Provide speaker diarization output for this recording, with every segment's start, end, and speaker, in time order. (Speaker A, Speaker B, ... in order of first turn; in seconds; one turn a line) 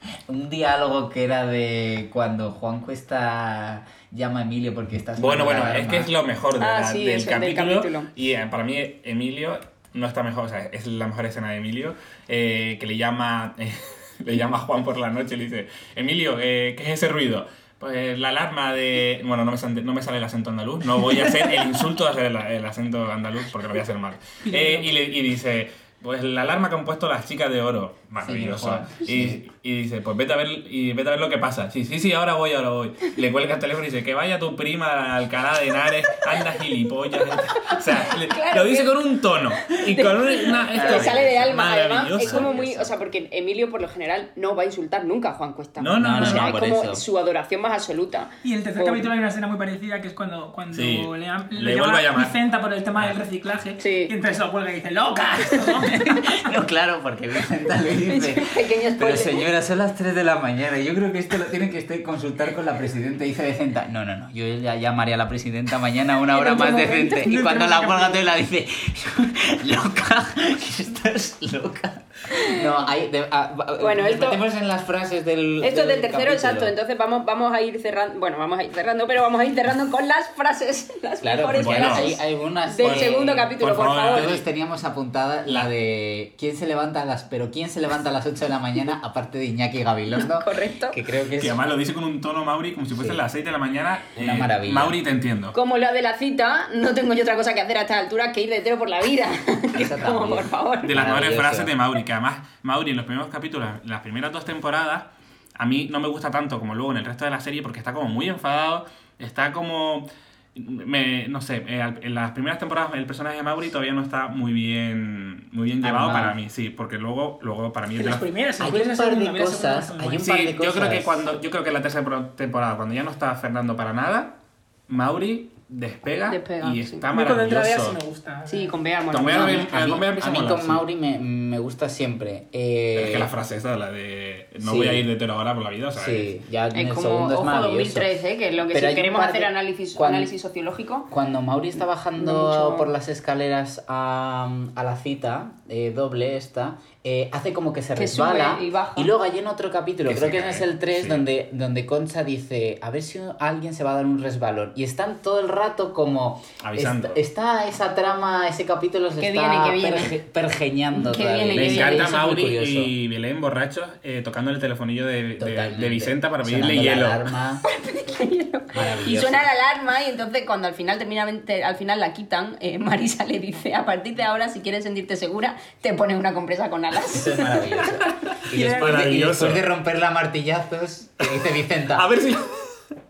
Speaker A: 0.3-6.1
Speaker B: 5.2-42.6
Speaker C: 6.6-8.1
Speaker D: 24.4-24.9
Speaker A: 28.2-29.4
Speaker C: 37.3-39.0
Speaker C: 39.6-49.1
Speaker A: 40.7-41.5
Speaker A: 42.2-42.9
Speaker B: 45.8-46.5
Speaker A: 46.0-47.0
Speaker D: 48.4-56.5
Speaker B: 50.7-52.4
Speaker C: 53.8-54.1
Speaker A: 55.8-76.7
Speaker C: 58.0-59.5
Speaker C: 66.3-67.4
Speaker D: 67.2-68.2
Speaker C: 72.3-72.7
Speaker C: 73.8-74.4
Speaker C: 75.6-84.4
Speaker A: 81.2-91.6
Speaker B: 81.6-82.1
Speaker B: 82.8-84.4
Speaker B: 85.5-85.7
Speaker C: 90.2-91.0
Speaker B: 91.4-95.6
Speaker A: 93.0-93.2
Speaker A: 94.2-95.0
Speaker C: 95.5-100.9
Speaker A: 99.7-101.7
Speaker B: 100.8-118.2
Speaker A: 115.8-116.4
Speaker D: 118.0-120.2
Speaker A: 118.6-121.3
Speaker B: 120.2-124.4
Speaker B: 124.9-128.0
Speaker C: 126.3-127.1
Speaker D: 127.1-128.8
Speaker C: 128.5-129.7
Speaker B: 129.1-130.8
Speaker A: 129.2-133.3
Speaker B: 132.9-136.3
Speaker A: 134.6-135.1
Speaker A: 135.9-138.1
Speaker C: 136.7-141.1
Speaker A: 138.7-140.3
Speaker A: 141.1-162.9
Speaker C: 142.2-142.9
Speaker C: 148.0-149.1
Speaker B: 150.1-151.2
Speaker B: 156.6-157.2
Speaker C: 159.2-160.2
Speaker C: 161.0-162.1
Speaker B: 161.6-167.2
Speaker A: 165.4-167.6
Speaker C: 167.7-177.9
Speaker A: 168.7-169.5
Speaker A: 177.1-182.1
Speaker B: 178.3-179.6
Speaker D: 178.5-179.0
Speaker B: 181.2-182.8